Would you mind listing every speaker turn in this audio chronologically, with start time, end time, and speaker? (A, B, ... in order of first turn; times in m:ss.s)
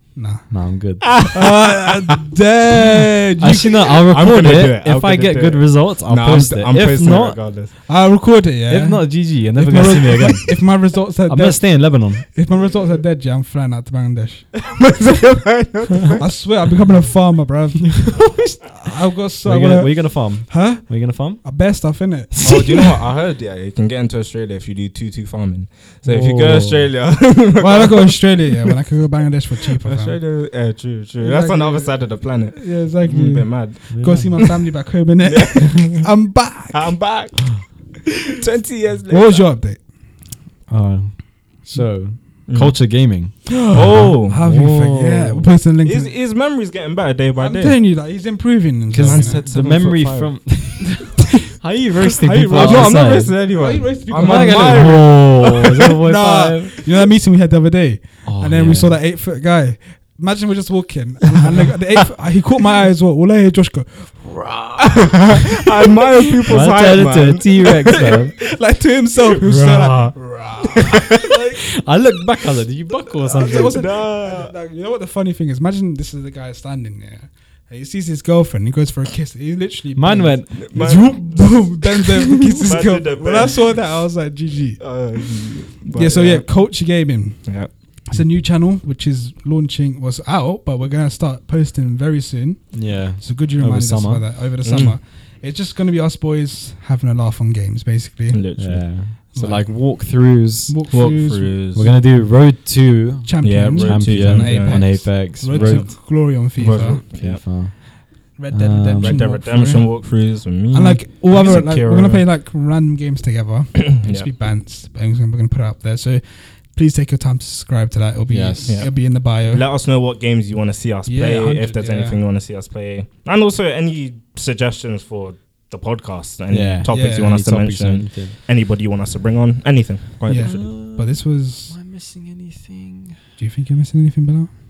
0:00.1-0:00.6 A
0:00.5-0:01.3 B
0:01.0-0:01.9 C
0:01.2-0:03.8 A
0:03.4-0:07.9 B
0:04.1-0:07.7 C
0:07.9-0:14.5 A
0:08.7-0:12.2 B
0:14.6-0:16.2 C
0:16.2-0:22.7 A
0:19.4-0:21.4 B
0:22.4-0:28.5 C
0:26.0-0:26.9 B
0:27.6-0:30.2 A
0:29.8-0:34.5 C
0:31.2-0:37.0 A
0:33.1-0:34.4 B
0:35.2-0:36.2 C
0:36.7-0:37.7 C
0:38.4-0:39.5 C
0:39.1-0:39.8 A
0:40.7-0:45.5 B
0:42.5-0:44.4 C
0:43.6-0:46.2 A
0:45.8-0:47.8 C
0:47.4-0:49.5 A
0:48.9-0:53.4 B
0:49.0-0:50.7 C
0:52.2-0:55.9 C
0:52.3-0:55.1 A
0:54.0-0:56.8 B
0:56.0-1:05.5 A
0:58.2-0:59.0 B
1:05.4-1:08.0 C
1:06.5-1:08.4 B
1:08.5-1:11.7 A
1:09.4-1:11.2 C
1:11.8-1:13.9 B
1:13.1-1:41.9 A
1:13.4-1:14.5 C
1:20.0-1:20.6 B
1:20.6-1:24.0 C
1:24.8-1:26.9 C
1:27.4-1:27.7 C
1:32.7-1:34.3 B
1:34.6-1:35.0 C
1:38.3-1:39.0 C
1:38.6-1:41.0 B
1:40.9-1:41.9 C
1:41.7-1:45.9 B
1:43.2-1:47.0 A
1:43.4-1:47.4 C
1:46.8-1:49.3 B
1:48.3-1:59.6 A
1:49.0-1:52.3 C
1:53.9-1:54.3 C
1:58.3-1:58.8 B
1:58.7-2:10.7 C
2:01.1-2:02.2 A
2:06.5-2:08.4 B
2:06.9-2:07.3 A
2:10.3-2:11.8 A
2:10.4-2:13.2 B
2:13.4-2:14.5 A